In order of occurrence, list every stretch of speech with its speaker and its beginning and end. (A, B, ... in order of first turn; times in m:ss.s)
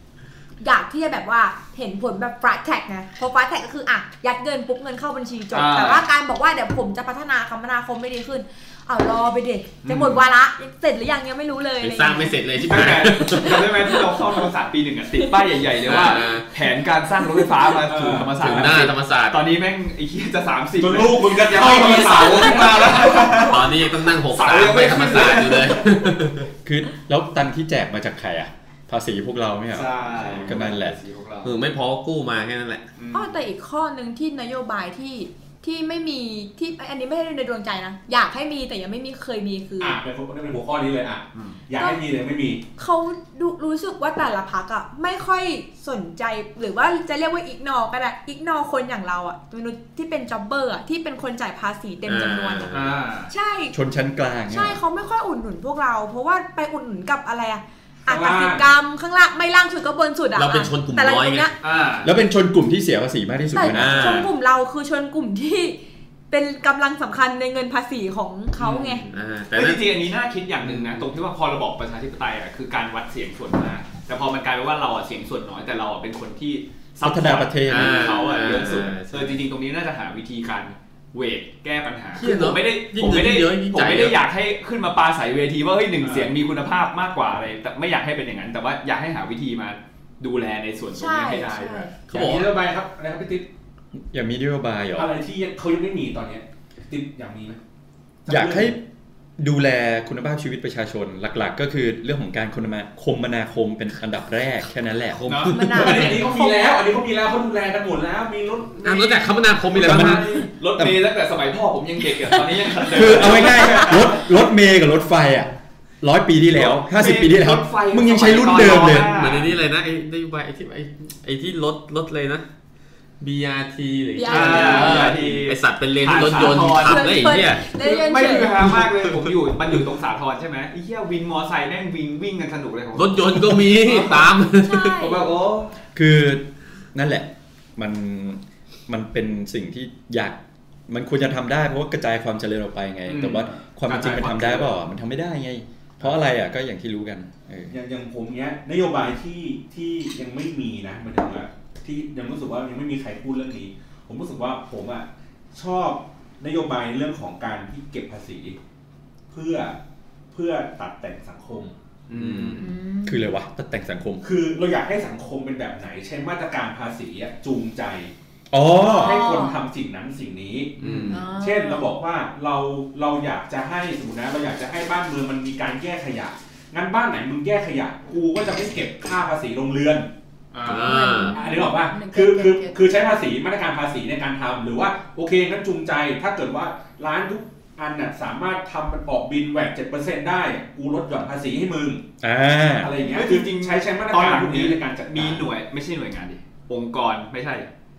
0:00.6-0:12.5 A
0:05.5-0:06.0 B
0:09.8-0:10.2 B
0:11.8-0:13.9 C
0:12.6-0:26.1 B
0:13.3-0:14.2 A
0:15.8-0:16.5 C
0:17.8-0:18.5 D
0:18.4-0:19.5 C
0:20.8-0:23.5 D
0:22.2-0:22.6 A
0:23.4-0:26.5 C
0:26.6-0:31.0 E
0:29.7-0:31.6 B
0:31.4-0:32.9 C
0:33.0-0:33.4 B
0:33.1-0:40.0 A
0:39.8-0:42.6 D
0:41.3-0:41.6 B
0:41.8-0:42.0 A
0:42.8-0:53.8 A
0:52.1-0:52.9 C
0:52.7-0:53.3 B
0:53.7-0:54.8 E
0:54.5-1:01.6 A
0:58.1-0:58.7 D
1:00.4-1:01.5 C
1:01.6-1:02.1 B
1:02.0-1:04.2 E
1:03.5-1:05.8 A
1:03.6-1:04.3 C
1:06.3-1:09.1 A
1:08.6-1:31.9 B
1:09.1-1:10.0 C
1:10.7-1:11.0 C
1:17.0-1:18.2 E
1:17.7-1:19.4 C
1:22.2-1:24.2 C
1:26.0-1:26.3 D
1:30.9-1:32.0 A
1:32.1-1:32.5 C
1:32.1-1:33.5 D
1:34.0-1:35.1 E
1:35.0-1:37.6 D
1:38.3-1:38.8 D
1:38.3-1:38.8 E
1:39.4-1:45.5 E
1:45.1-1:46.1 C
1:45.3-1:46.1 B
1:45.5-1:46.8 A
1:45.7-1:50.5 D
1:48.8-1:50.3 C
1:49.8-1:50.2 E
1:50.4-1:54.2 B
1:52.9-1:55.5 E
1:53.7-1:53.9 A
1:56.0-1:59.1 E
1:56.5-1:59.5 B
1:58.5-2:02.4 C
2:03.2-2:07.7 C
2:04.2-2:05.1 A
2:04.3-2:14.3 B
2:06.2-2:08.8 A
2:08.7-2:09.3 C
2:13.0-2:15.1 C
2:14.5-2:15.2 A
2:15.0-2:15.8 B
2:16.0-2:27.8 E
2:23.1-2:24.7 B
2:27.7-2:38.6 D
2:39.3-2:39.8 D
2:40.3-2:41.7 D
2:42.1-2:42.7 B
2:42.2-2:42.6 C
2:42.6-2:43.3 A
2:43.0-2:44.2 E
2:44.2-2:48.1 D
2:48.5-2:49.2 E
2:48.8-2:49.6 A
2:49.0-3:00.1 D
2:50.8-2:51.2 C
2:50.8-2:51.1 B
2:51.1-2:51.9 A
3:00.5-3:01.1 B
3:00.7-3:01.4 C
3:00.8-3:03.1 A
3:01.3-3:12.0 D
3:12.2-3:12.9 E
3:12.8-3:15.5 D
3:13.1-3:17.7 B